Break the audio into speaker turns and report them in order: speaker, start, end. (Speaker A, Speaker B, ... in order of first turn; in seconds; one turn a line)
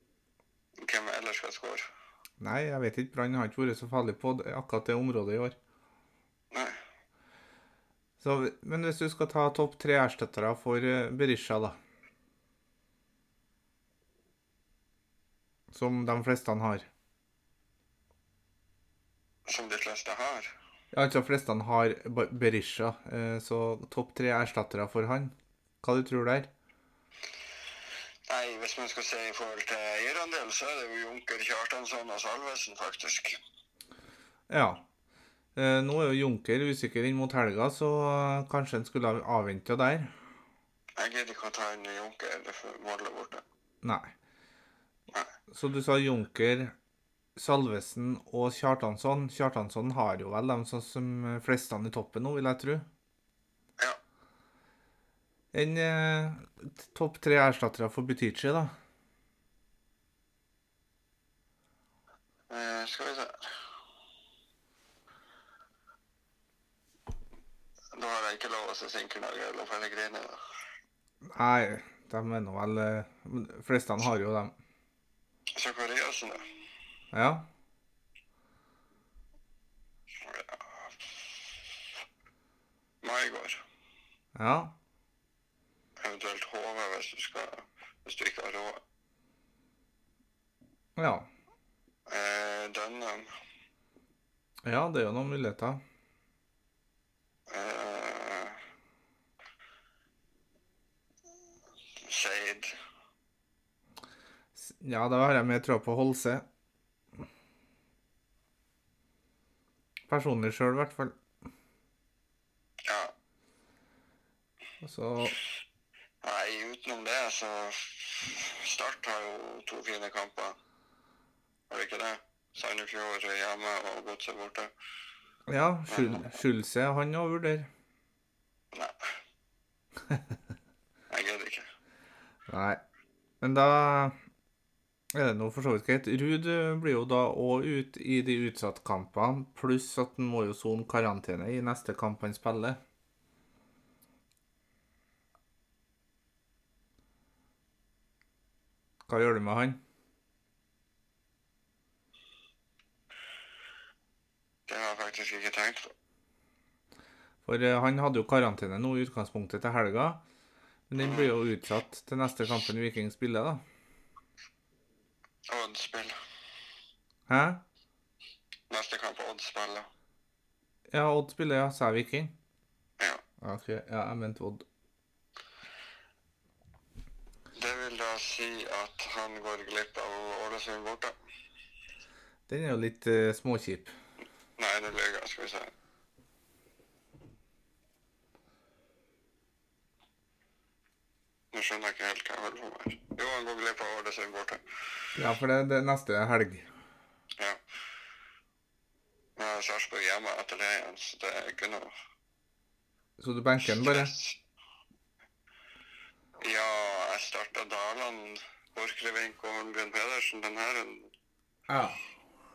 Speaker A: 0.8-1.9
Speaker B: 2.4-5.5
Speaker A: 6.5-6.8
Speaker B: 8.2-11.8
Speaker B: 15.7-16.9
Speaker A: 19.5-20.5
Speaker B: 20.9-26.5
Speaker A: 28.3-33.4
Speaker B: 34.5-34.8
Speaker B: 35.5-40.1
Speaker A: 41.0-43.4
Speaker B: 43.8-44.1
Speaker B: 45.5-46.7
Speaker B: 47.4-52.9
Speaker B: 55.5-58.7
Speaker A: 62.5-63.5
Speaker A: 67.9-70.4
Speaker B: 71.3-74.5
Speaker A: 75.5-76.4
Speaker B: 77.1-77.5
Speaker A: 80.2-81.1
Speaker A: 83.0-83.6
Speaker B: 84.3-84.7
Speaker A: 86.0-88.8
Speaker B: 91.0-91.3
Speaker A: 92.1-93.3
Speaker B: 94.6-95.8
Speaker A: 97.5-98.6
Speaker A: 102.0-102.7
Speaker B: 104.5-106.4
Speaker B: 110.1-111.2
Speaker A: 112.9-113.1
Speaker B: 114.8-115.4
Speaker A: 116.2-120.5
Speaker A: 121.7-124.7
Speaker B: 125.5-127.7
Speaker A: 125.9-126.4
Speaker A: 131.1-131.6
Speaker B: 132.5-132.8
Speaker B: 133.4-134.1
Speaker B: 135.1-142.8
Speaker B: 149.1-149.8
Speaker A: 154.7-155.9
Speaker B: 157.4-160.2
Speaker B: 160.9-163.6
Speaker A: 161.0-161.3
Speaker A: 165.5-166.1
Speaker B: 167.3-167.6
Speaker A: 168.7-169.9
Speaker B: 170.9-172.3
Speaker B: 173.4-174.6
Speaker A: 177.5-181.1
Speaker B: 182.5-183.9
Speaker A: 184.6-185.7
Speaker A: 191.5-194.6
Speaker B: 195.2-196.7
Speaker A: 199.4-201.9
Speaker B: 203.2-204.1
Speaker A: 203.6-204.4
Speaker A: 206.4-211.1
Speaker B: 211.7-212.0